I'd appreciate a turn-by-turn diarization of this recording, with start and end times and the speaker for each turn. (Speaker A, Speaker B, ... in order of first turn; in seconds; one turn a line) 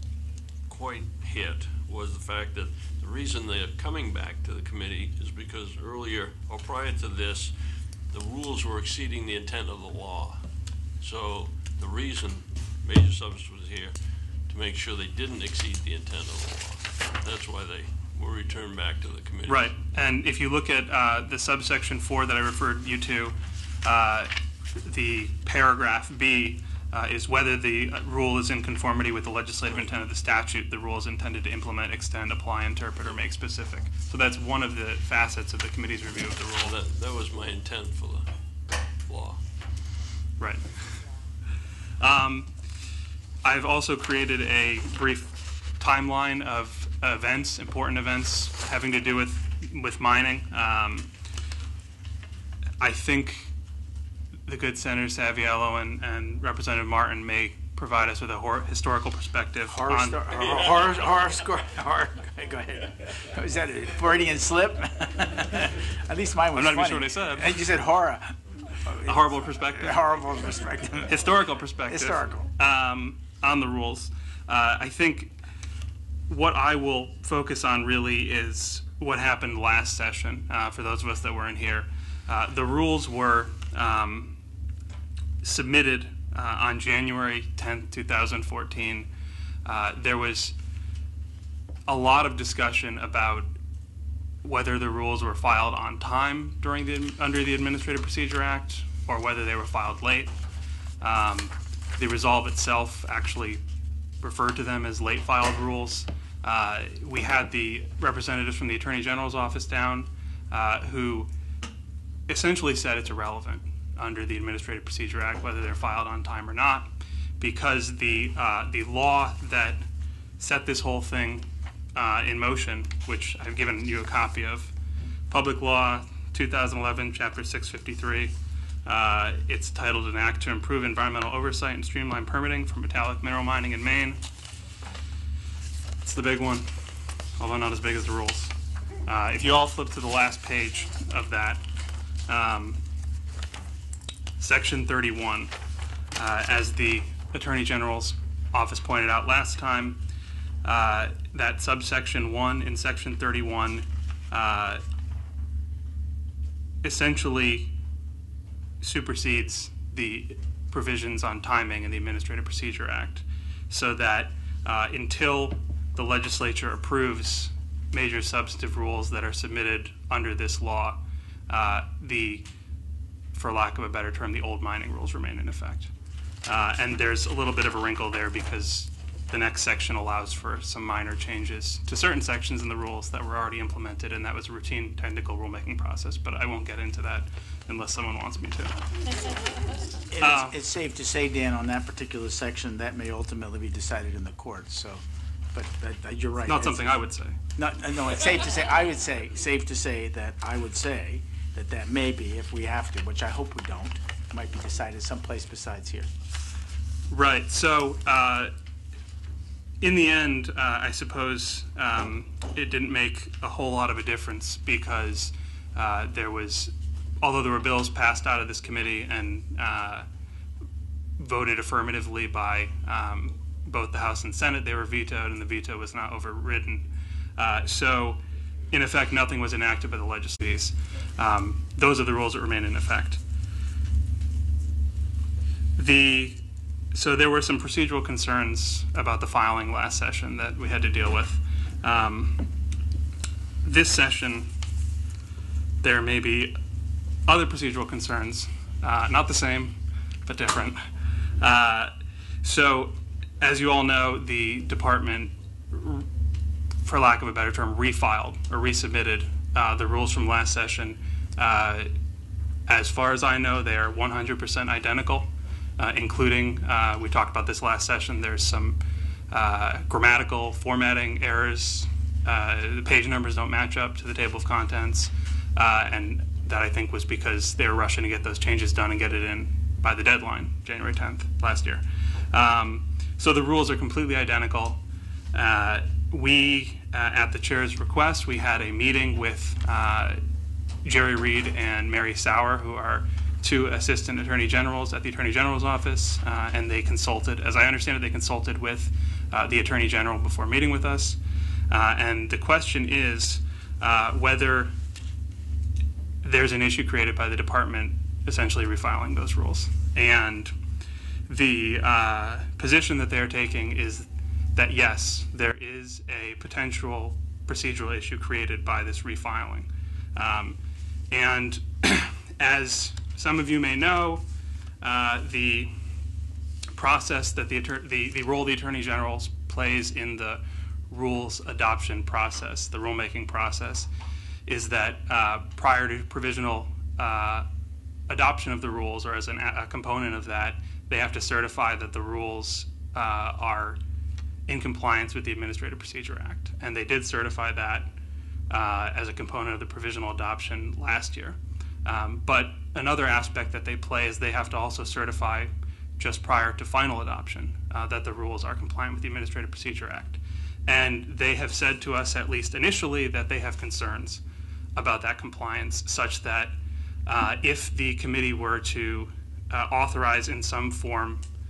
Speaker A: 0.7-19.8
Speaker B: 19.5-36.8
Speaker A: 36.6-38.3
Speaker A: 38.9-39.4
Speaker B: 40.4-41.1
Speaker B: 42.0-42.5
Speaker B: 43.4-51.1
Speaker B: 52.8-53.5
Speaker B: 54.5-60.4
Speaker C: 59.7-71.2
Speaker B: 66.5-67.6
Speaker B: 69.0-70.1
Speaker B: 71.0-75.4
Speaker C: 71.9-72.5
Speaker B: 76.3-84.4
Speaker B: 85.4-89.1
Speaker B: 89.7-90.6
Speaker B: 91.9-93.5
Speaker B: 94.4-100.4
Speaker B: 101.0-103.6
Speaker B: 104.2-111.3
Speaker B: 112.3-119.8
Speaker B: 120.4-124.7
Speaker B: 125.3-128.3
Speaker B: 128.8-134.2
Speaker B: 136.0-136.7
Speaker B: 137.4-138.5
Speaker B: 139.1-141.6
Speaker B: 142.3-142.8
Speaker B: 144.4-145.5
Speaker B: 146.2-150.0
Speaker B: 150.6-154.8
Speaker B: 156.8-157.7
Speaker B: 158.8-172.5
Speaker B: 173.3-175.9
Speaker B: 176.4-188.9
Speaker C: 190.1-195.0
Speaker B: 190.2-190.6
Speaker C: 195.5-196.9
Speaker B: 196.5-197.4
Speaker C: 197.6-206.1
Speaker B: 207.1-208.5
Speaker B: 209.8-220.1
Speaker B: 221.2-233.2
Speaker B: 235.8-242.5
Speaker B: 243.6-244.5
Speaker B: 245.8-246.6
Speaker B: 247.3-256.1
Speaker B: 256.8-261.9
Speaker B: 262.7-268.8
Speaker B: 269.3-284.8
Speaker B: 285.3-290.2
Speaker B: 290.8-304.7
Speaker B: 306.2-310.5
Speaker B: 311.3-320.6
Speaker B: 321.1-324.2
Speaker B: 324.8-325.7
Speaker B: 326.7-333.9
Speaker B: 334.5-337.5
Speaker B: 338.1-343.8
Speaker B: 344.5-347.9
Speaker B: 348.5-364.2
Speaker B: 364.8-366.6
Speaker B: 367.1-371.2